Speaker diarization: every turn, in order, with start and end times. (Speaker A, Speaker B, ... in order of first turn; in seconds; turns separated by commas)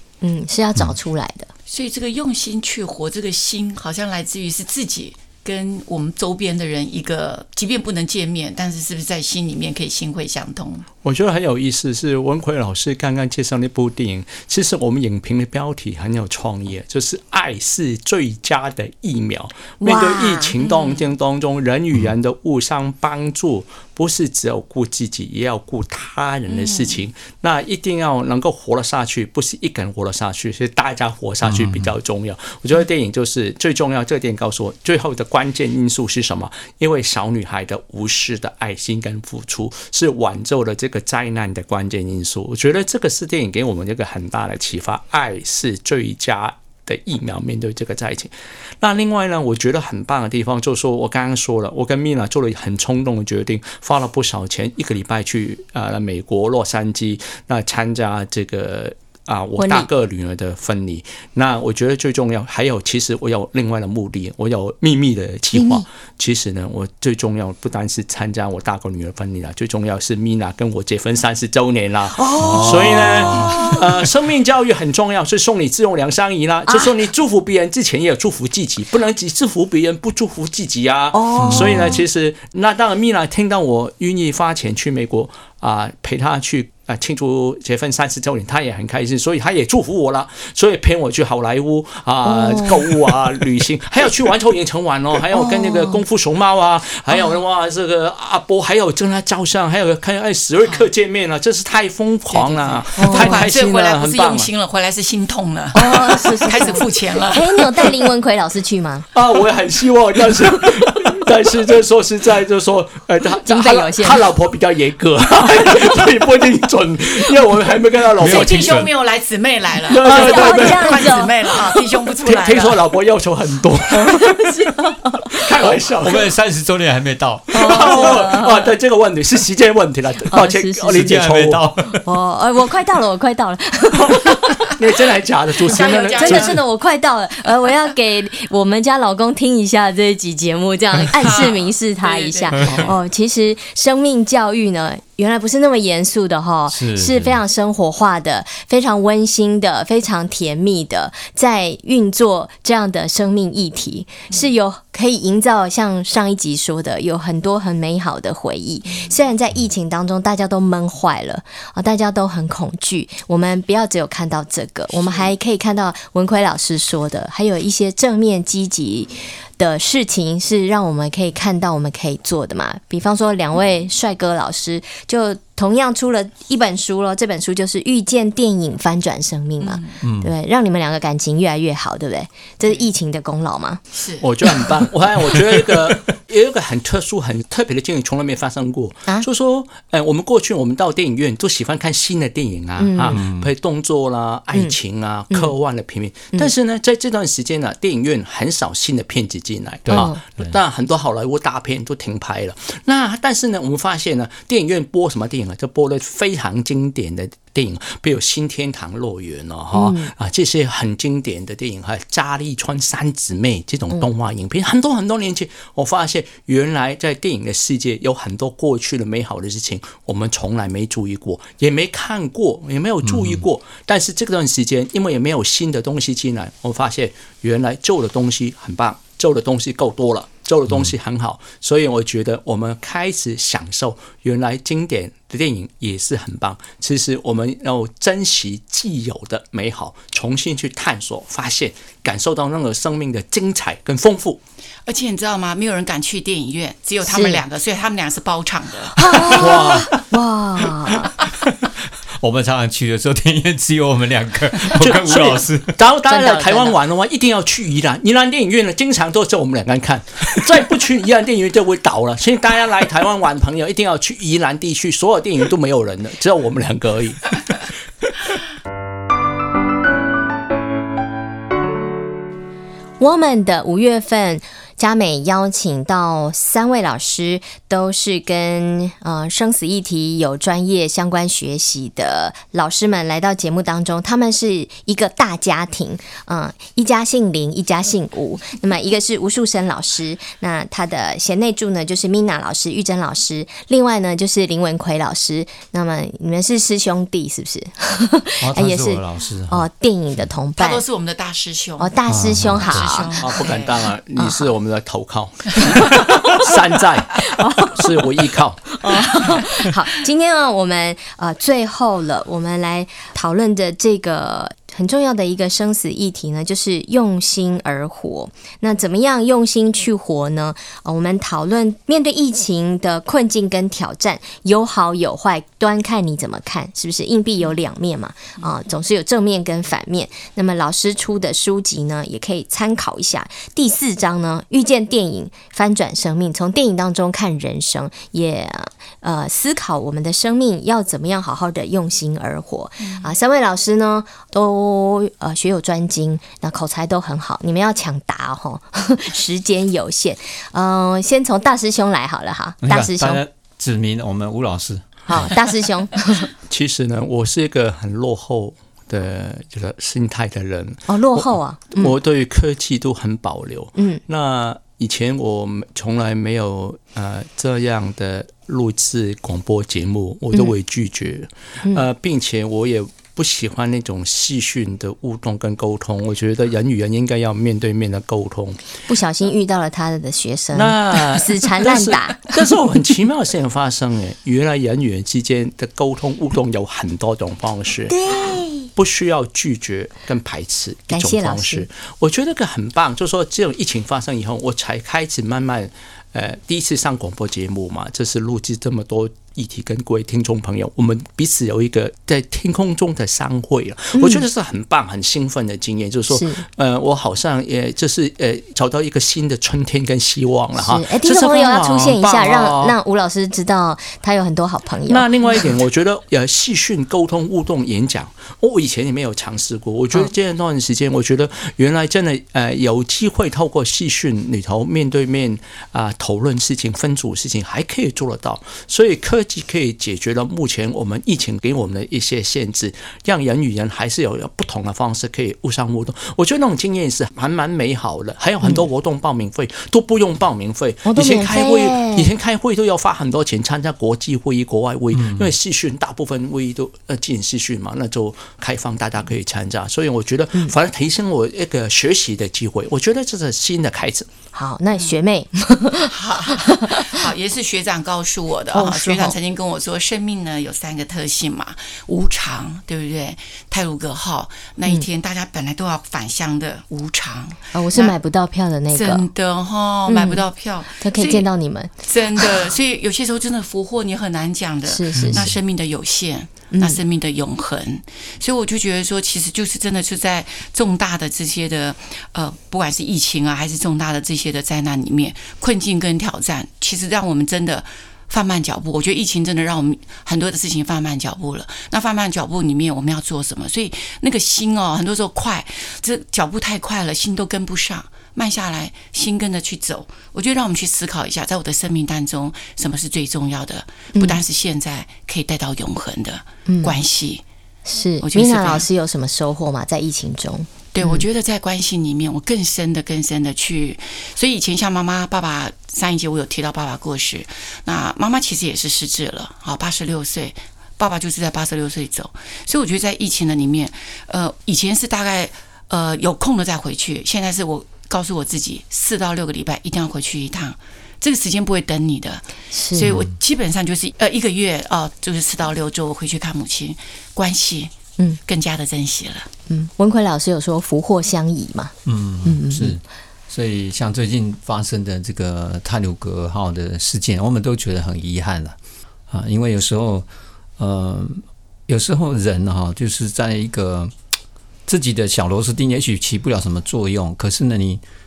Speaker A: 0.2-1.5, Speaker B: 1.7-10.9, Speaker C: 11.0-104.5, Speaker A: 19.8-20.5, Speaker B: 20.6-21.0, Speaker B: 26.5-26.9, Speaker D: 31.4-31.9, Speaker A: 59.6-59.9, Speaker A: 65.5-65.8, Speaker A: 72.1-73.8, Speaker D: 72.4-73.6, Speaker A: 76.7-76.9, Speaker A: 81.1-82.0, Speaker D: 81.4-82.0, Speaker A: 92.2-92.9, Speaker A: 95.3-96.0, Speaker B: 102.3-107.9, Speaker A: 103.0-103.4, Speaker A: 105.7-109.1, Speaker C: 109.1-118.7, Speaker A: 113.4-114.2, Speaker D: 118.2-118.9, Speaker B: 118.2-122.8, Speaker C: 119.9-121.2, Speaker A: 120.0-121.3, Speaker C: 122.2-124.3, Speaker A: 124.0-125.4, Speaker C: 125.3-126.3, Speaker D: 126.0-127.9, Speaker C: 127.5-131.6, Speaker A: 127.5-128.7, Speaker A: 130.2-131.2, Speaker D: 130.9-132.0, Speaker A: 132.0-134.7, Speaker C: 134.7-136.6, Speaker B: 135.7-136.6, Speaker A: 135.7-183.8, Speaker B: 141.2-142.9, Speaker D: 146.7-147.4, Speaker B: 165.0-165.3, Speaker B: 179.6-180.0, Speaker D: 180.0-180.3, Speaker B: 183.9-184.2, Speaker C: 184.2-244.4, Speaker A: 192.8-193.2, Speaker D: 193.1-193.5, Speaker D: 199.8-200.6, Speaker A: 199.9-200.2, Speaker A: 209.7-210.1, Speaker D: 223.0-223.4, Speaker D: 230.7-230.9, Speaker B: 244.8-249.3, Speaker A: 247.1-247.4, Speaker A: 249.0-251.1, Speaker D: 249.3-249.9, Speaker C: 249.3-249.9, Speaker D: 252.2-255.7, Speaker C: 254.8-267.6, Speaker A: 256.1-256.8, Speaker A: 273.0-300.8, Speaker D: 298.4-299.7, Speaker B: 300.6-301.9, Speaker A: 301.8-303.2, Speaker D: 302.1-302.9, Speaker B: 302.6-303.8, Speaker C: 303.1-308.7, Speaker A: 304.1-304.5, Speaker A: 307.4-308.0, Speaker A: 308.8-353.2, Speaker B: 309.1-309.4, Speaker B: 342.8-343.1, Speaker D: 352.6-355.3, Speaker A: 355.1-356.3, Speaker C: 356.4-378.6, Speaker A: 360.9-361.9, Speaker A: 363.8-364.0, Speaker A: 378.9-382.3, Speaker C: 380.5-387.9, Speaker A: 387.9-388.7, Speaker C: 388.8-412.8, Speaker A: 390.9-391.7, Speaker A: 403.9-404.2, Speaker A: 406.1-406.4, Speaker A: 410.6-415.1, Speaker C: 414.9-454.1, Speaker A: 440.9-442.1, Speaker D: 444.9-445.3, Speaker A: 454.3-456.8, Speaker B: 455.9-467.9, Speaker A: 458.5-459.2, Speaker A: 467.5-469.1, Speaker B: 468.7-471.3, Speaker A: 469.9-470.2, Speaker A: 470.8-472.5, Speaker B: 471.8-507.2, Speaker A: 474.6-475.3, Speaker D: 474.9-475.3, Speaker A: 476.5-476.8, Speaker A: 503.9-504.2, Speaker A: 506.5-506.8, Speaker A: 507.6-511.0, Speaker B: 508.0-508.6, Speaker B: 510.7-537.7, Speaker A: 532.5-532.9, Speaker D: 532.8-533.1, Speaker B: 538.2-539.3, Speaker A: 539.5-541.7, Speaker D: 541.8-548.5, Speaker A: 542.2-542.8, Speaker D: 549.1-550.0, Speaker D: 550.6-553.9, Speaker D: 554.7-557.8